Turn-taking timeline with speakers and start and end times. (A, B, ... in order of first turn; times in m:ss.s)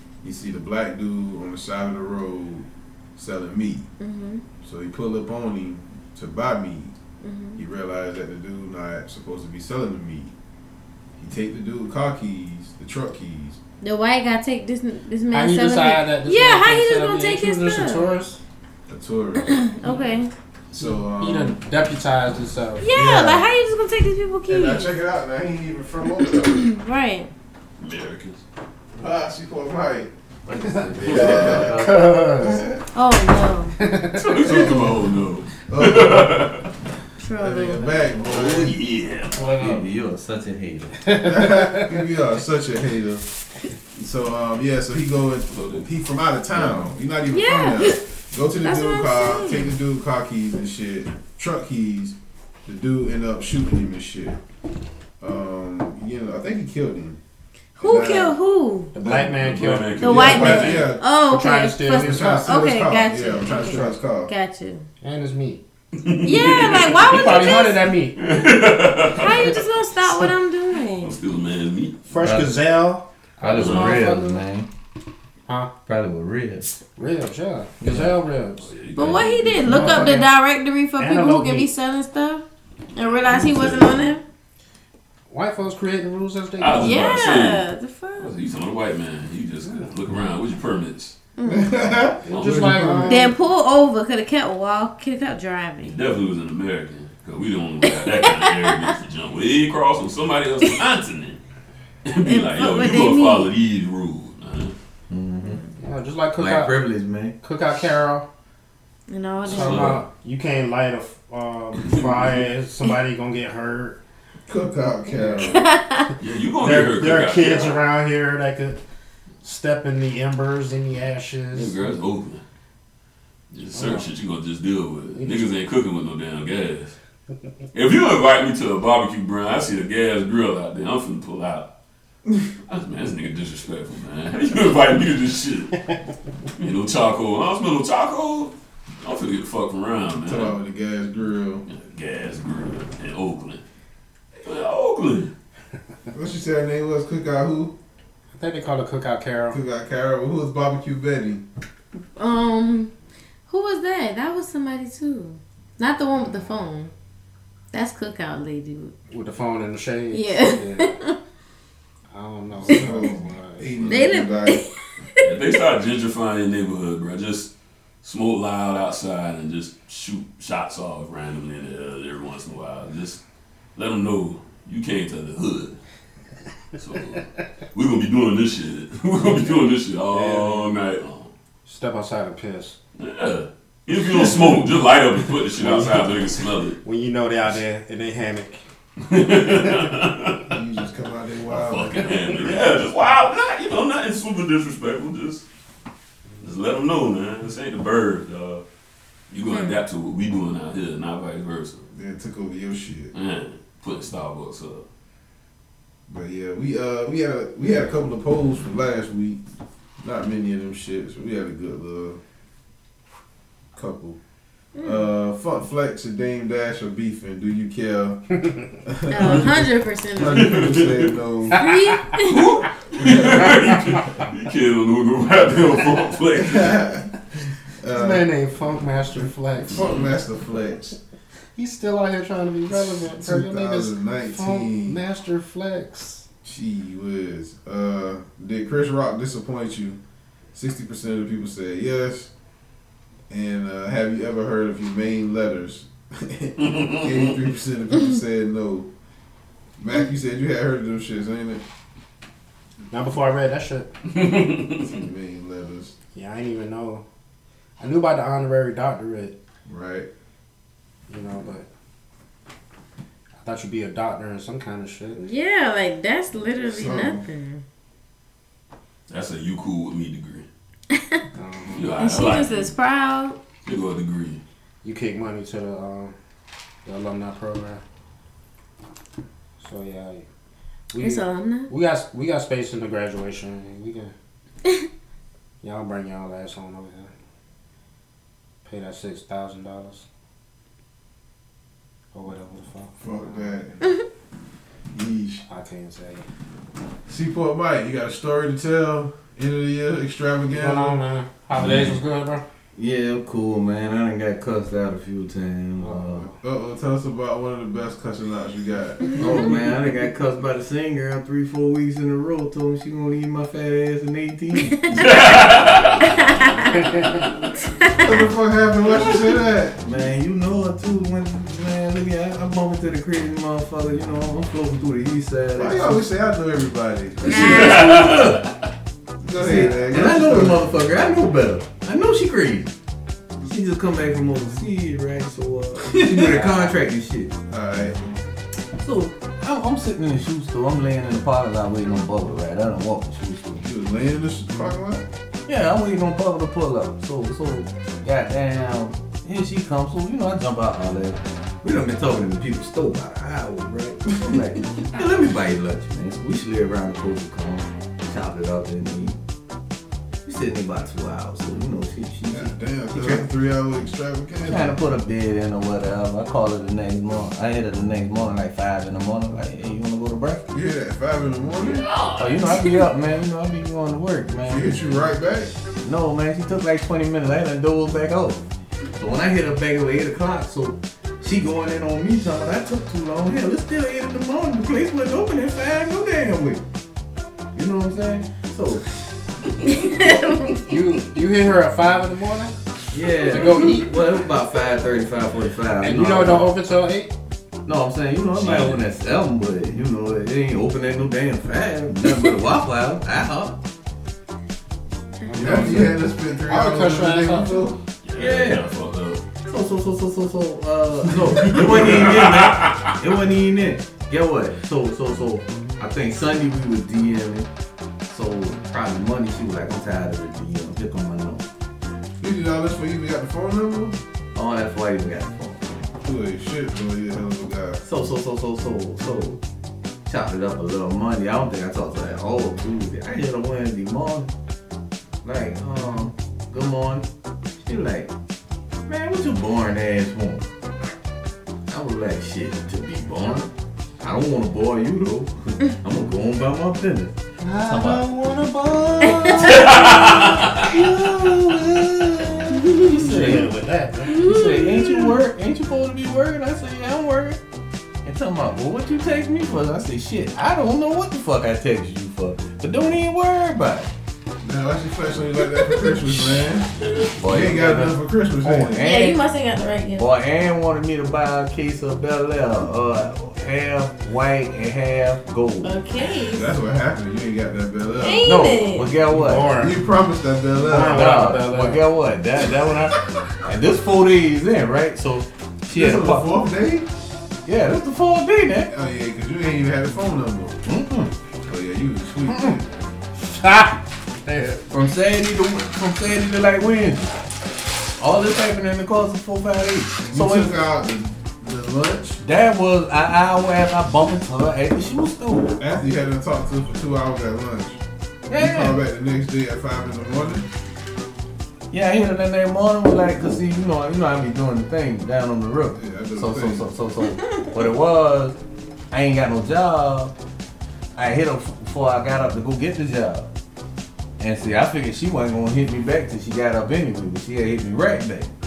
0:00.2-0:03.9 A
0:04.0-0:04.4 B
0:04.6-0:06.9 A
0:07.2-0:07.6 B
0:07.6-0:10.3 A
0:11.2-0:13.6 A
0:13.8-0:18.1 B
0:15.3-0:18.4 C
0:18.9-0:19.5 A
0:19.4-0:20.3 B
0:20.7-0:21.6 A
0:20.8-0:22.9 C
0:22.8-0:25.0 B
0:22.9-0:23.5 A
0:24.5-0:26.7 A
0:26.4-0:27.3 B
0:27.8-0:28.4 D
0:29.0-0:30.1 A
0:30.4-0:32.2 E
0:30.7-0:31.1 C
0:31.0-0:32.8 A
0:31.0-0:31.8 D
0:31.7-0:32.6 C
0:32.9-0:33.8 B
0:33.8-0:34.6 C
0:34.1-0:36.6 D
0:34.3-0:36.5 A
0:37.2-0:38.3 B
0:37.3-0:38.8 A
0:38.2-0:39.4 D
0:39.3-0:39.9 C
0:39.4-0:41.1 E
0:41.0-0:42.1 C
0:41.2-0:43.2 A
0:43.9-0:54.4 A
0:45.5-0:45.8 D
0:46.5-0:46.9 E
0:47.3-0:48.0 B
0:48.6-0:49.7 B
0:55.2-0:57.2 A
0:57.8-0:58.9 B
0:57.8-0:58.3 A
0:58.9-1:02.6 C
0:59.0-1:01.0 A
0:59.2-1:00.9 D
1:00.0-1:04.9 B
1:02.0-1:04.3 A
1:05.0-1:05.6 C
1:06.0-1:07.5 D
1:06.2-1:07.8 B
1:07.0-1:08.3 C
1:08.2-1:09.6 D
1:09.1-1:11.2 B
1:09.2-1:09.5 C
1:11.0-1:12.0 D
1:12.0-1:14.4 C
1:12.2-1:12.6 E
1:13.4-1:14.7 E
1:13.5-1:14.0 D
1:15.5-1:15.7 C
1:15.8-1:16.8 E
1:17.0-1:18.7 C
1:17.8-1:20.1 D
1:19.0-1:24.2 B
1:19.6-1:20.3 C
1:21.0-1:21.7 C
1:23.2-1:24.0 D
1:25.3-1:27.0 C
1:26.6-1:27.6 D
1:26.8-1:28.3 B
1:28.2-1:31.1 D
1:31.4-1:31.7 B
1:31.4-1:33.3 A
1:32.2-1:33.3 C
1:32.3-1:32.9 D
1:33.0-1:35.9 B
1:35.8-1:41.4 D
1:37.8-1:38.9 B
1:42.0-1:44.7 D
1:42.2-1:43.5 B
1:45.1-1:45.6 E
1:45.4-1:45.7 B
1:45.8-1:46.8 C
1:46.4-1:47.4 E
1:47.4-1:48.3 C
1:49.1-1:50.0 B
1:49.4-1:50.0 D
1:49.5-1:54.0 C
1:51.8-1:52.2 D
1:54.5-1:55.7 A
1:55.4-1:56.1 B
1:56.2-1:57.8 D
1:56.6-1:58.8 C
1:59.4-2:01.8 C
2:01.5-2:02.4 D
2:03.5-2:06.9 D
2:03.7-2:04.1 C
2:05.2-2:05.5 C
2:07.7-2:11.7 D
2:12.7-2:15.8 D
2:16.6-2:20.6 D
2:20.2-2:21.6 A
2:21.7-2:23.6 D
2:24.4-2:25.3 D
2:26.1-2:27.7 A
2:28.3-2:29.6 C
2:29.5-2:31.4 A
2:32.2-2:32.9 B
2:33.5-2:36.9 B
2:37.7-2:38.9 B
2:39.1-2:41.0 C
2:40.1-2:41.2 B
2:42.1-2:44.0 C
2:42.6-2:44.6 A
2:43.9-2:45.3 B
2:45.2-2:53.2 D
2:53.7-2:55.8 D
2:56.8-3:01.3 D
3:00.2-3:00.5 C
3:01.6-3:02.8 C
3:03.0-3:06.8 D
3:04.2-3:04.6 C
3:05.5-3:08.6 C
3:09.0-3:10.6 D
3:10.5-3:12.5 A
3:11.5-3:15.4 D
3:16.4-3:18.6 D
3:19.3-3:21.9 D
3:19.5-3:19.8 B
3:21.9-3:23.1 A
3:23.1-3:24.8 D
3:26.1-3:29.4 A
3:30.0-3:32.2 A
3:33.7-3:34.2 A
3:34.7-3:35.1 B
3:34.8-3:41.6 A
3:39.1-3:40.6 B
3:40.3-3:41.1 D
3:41.6-3:42.6 B
3:42.2-3:46.8 D
3:43.0-3:43.6 A
3:43.2-3:44.0 C
3:46.3-3:47.1 A
3:47.8-3:48.3 A
3:47.9-3:50.0 C
3:49.7-3:51.0 A
3:51.5-3:56.3 C
3:52.7-3:55.0 A
3:56.4-4:00.0 A
4:00.5-4:02.3 A
4:03.3-4:08.9 A
4:06.6-4:07.4 D
4:09.8-4:11.6 A
4:12.9-4:13.9 C
4:14.1-4:15.0 D
4:14.8-4:16.0 A
4:16.1-4:17.0 C
4:17.8-4:19.4 C
4:19.7-4:20.1 A
4:21.1-4:21.7 C
4:23.4-4:25.2 C
4:25.2-4:27.6 B
4:26.6-4:27.2 A
4:29.1-4:30.5 D
4:30.9-4:31.2 B
4:31.3-4:31.9 C
4:31.7-4:32.7 D
4:32.0-4:33.4 B
4:33.6-4:34.4 D
4:34.8-4:36.2 C
4:36.8-4:37.8 C
4:39.6-4:40.3 C
4:40.9-4:44.1 C
4:41.0-4:41.7 B
4:45.6-4:47.1 C
4:48.6-4:50.0 C
4:52.1-4:53.7 C
4:53.0-4:53.8 A
4:54.9-4:55.4 A
4:55.4-4:56.2 C
4:57.1-5:01.0 A
5:00.5-5:02.4 C
5:01.6-5:01.9 D
5:02.8-5:06.3 E
5:05.8-5:06.4 C
5:06.3-5:09.5 A
5:09.1-5:14.8 E
5:14.7-5:15.1 B
5:14.9-5:16.4 D
5:16.0-5:16.9 B
5:16.8-5:17.2 C
5:17.8-5:18.2 B
5:18.0-5:19.8 A
5:19.8-5:26.1 E
5:25.6-5:27.7 A
5:27.2-5:28.2 B
5:27.3-5:28.4 D
5:27.3-5:28.4 E
5:29.2-5:30.7 A
5:29.3-5:32.7 E
5:33.4-5:37.3 E
5:35.9-5:36.5 A
5:36.2-5:36.7 C
5:37.5-5:38.1 A
5:38.8-5:43.6 E
5:43.6-5:45.0 A
5:45.4-5:59.2 E
6:00.2-6:03.3 E
6:02.3-6:04.8 A
6:04.4-6:10.5 E
6:10.5-6:11.9 A
6:11.6-6:12.2 D
6:12.2-6:14.8 E
6:14.4-6:15.5 A
6:15.8-6:18.4 E
6:19.0-6:26.6 E
6:27.5-6:28.9 E
6:29.6-6:30.8 B
6:30.6-6:32.5 C
6:32.9-6:36.5 E
6:33.3-6:33.8 C
6:35.8-6:37.1 C
6:37.6-6:43.6 E
6:45.2-6:45.5 B
6:45.2-6:47.7 C
6:45.3-6:47.8 A
6:48.0-6:49.2 D
6:48.2-6:48.7 E
6:49.4-6:57.5 E
6:51.3-6:52.1 A
6:51.4-6:52.9 D
6:58.0-7:01.4 E
7:02.2-7:04.0 A
7:04.3-7:05.8 E
7:06.0-7:07.8 A
7:07.8-7:09.4 E
7:10.0-7:14.3 E
7:15.2-7:18.1 E
7:18.9-7:20.4 E
7:21.7-7:33.6 E
7:27.4-7:29.4 C
7:29.0-7:29.3 B
7:29.4-7:30.7 D
7:32.5-7:33.0 B
7:32.9-7:34.2 C
7:34.0-7:35.2 B
7:34.1-7:37.4 E
7:38.0-7:43.9 E
7:44.4-7:49.0 A
7:47.1-7:49.2 E
7:48.4-7:48.8 C
7:48.8-7:50.1 B
7:50.0-7:55.8 E
7:55.6-7:56.5 B
7:56.3-7:58.3 A
7:58.0-7:58.9 B
7:58.2-7:59.6 E
7:59.0-7:59.8 C
7:59.5-8:01.1 A
8:00.6-8:01.8 C
8:00.9-8:06.3 E
8:05.7-8:06.9 A
8:07.4-8:08.7 E
8:08.7-8:10.6 A
8:10.6-8:11.1 E
8:11.4-8:12.8 A
8:12.3-8:12.6 C
8:13.2-8:14.6 C
8:14.7-8:17.2 E
8:18.0-8:20.6 E
8:20.1-8:22.2 A
8:22.2-8:25.6 E
8:25.6-8:27.8 A
8:28.3-8:28.8 E
8:28.3-8:30.4 A
8:31.7-8:38.4 E
8:35.7-8:36.7 A
8:38.9-8:40.1 E
8:40.9-8:43.3 E
8:44.2-8:48.3 E